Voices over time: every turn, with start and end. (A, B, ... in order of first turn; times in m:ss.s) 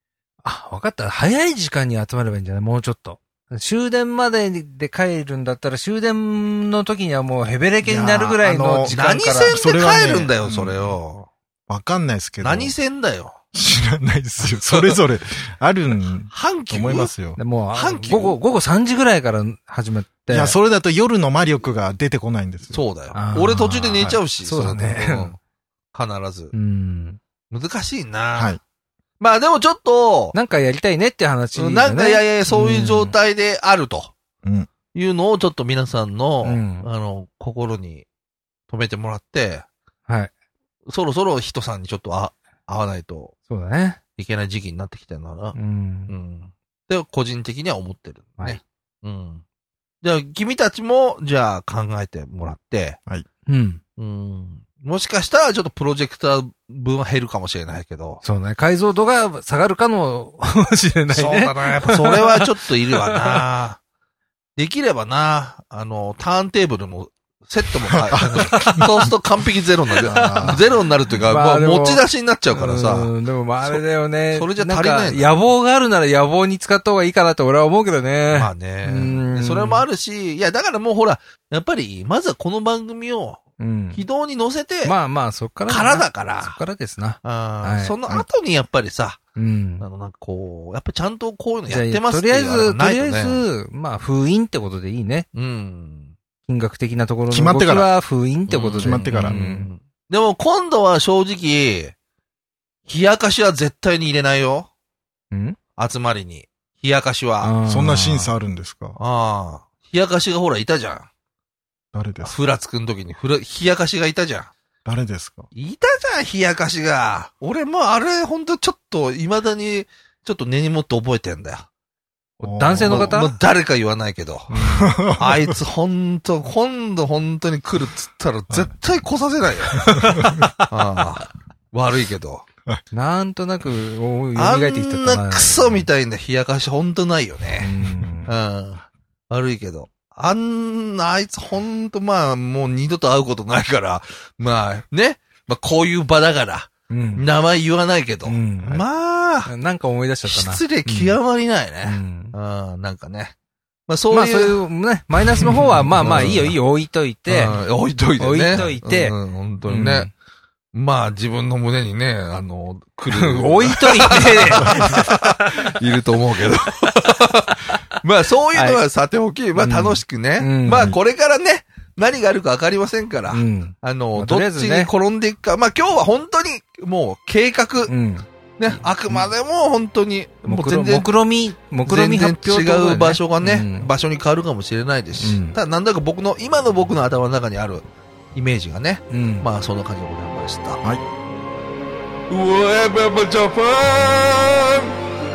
0:00.4-0:09.6 A
0:07.8-0:10.9 B
0:08.9-0:11.3 C
0:11.7-0:12.7 B
0:12.4-0:13.4 C
0:13.5-0:17.4 B
0:14.7-0:15.0 C
0:16.3-0:17.1 C
0:17.4-0:20.6 A
0:17.7-0:18.4 C
0:20.3-0:22.8 B
0:22.7-0:25.4 C
0:23.1-0:25.4 A
0:25.9-0:26.5 C
0:26.5-0:27.2 A
0:27.5-0:28.6 C
0:28.4-0:28.6 B
0:29.2-0:30.4 C
0:30.3-0:33.2 A
0:31.5-0:34.1 C
0:34.4-0:34.7 B
0:34.9-0:38.1 C
0:36.4-0:36.9 A
0:38.7-0:39.7 C
0:40.9-0:43.3 C
0:43.5-0:44.0 A
0:44.2-0:45.6 C
0:45.6-0:46.1 A
0:46.1-0:49.4 C
0:50.0-0:53.0 C
0:53.5-0:53.8 A
0:54.0-0:58.2 C
0:58.2-1:03.4 A
1:01.1-1:03.8 C
1:04.6-1:13.1 C
1:08.2-1:08.7 B
1:08.2-1:08.9 A
1:10.0-1:19.9 A
1:10.0-1:10.6 B
1:14.3-1:15.3 C
1:18.3-1:23.4 C
1:23.6-1:24.0 A
1:23.9-1:25.0 C
1:24.8-1:28.0 A
1:25.7-1:26.6 C
1:27.2-1:29.2 C
1:29.4-1:29.8 A
1:29.8-1:33.4 C
1:31.7-1:35.3 A
1:35.3-1:36.1 C
1:36.5-1:39.7 A
1:37.3-1:37.9 B
1:38.5-1:42.0 C
1:38.8-1:39.4 B
1:42.9-1:44.7 C
1:45.3-1:45.6 A
1:45.8-1:47.5 C
1:47.4-1:48.3 A
1:47.7-1:49.0 B
1:49.0-1:51.1 C
1:51.9-1:52.3 B
1:52.2-1:54.5 C
1:54.8-1:55.5 B
1:55.5-2:01.7 C
2:02.4-2:03.2 B
2:02.4-2:03.4 A
2:02.9-2:10.0 C
2:04.5-2:05.6 B
2:09.8-2:10.5 B
2:09.8-2:10.7 A
2:10.7-2:12.4 C
2:12.9-2:15.9 A
2:14.4-2:17.7 C
2:17.6-2:18.3 A
2:18.3-2:29.5 C
2:26.9-2:27.3 A
2:28.3-2:28.8 A
2:29.5-2:31.2 A
2:30.3-2:33.4 C
2:31.8-2:32.3 A
2:33.9-2:34.6 C
2:34.1-2:37.6 A
2:35.4-2:36.6 C
2:37.3-2:40.1 C
2:38.2-2:39.2 A
2:39.7-2:40.1 A
2:40.7-2:57.9 C
2:43.1-2:45.8 A
2:48.5-2:48.8 A
2:49.6-2:51.0 A
2:53.3-2:54.9 A
2:57.9-2:58.3 A
2:58.6-3:01.1 C
3:00.5-3:03.9 A
3:01.8-3:10.8 C
3:05.2-3:05.6 A
3:09.1-3:09.5 A
3:12.3-3:14.9 C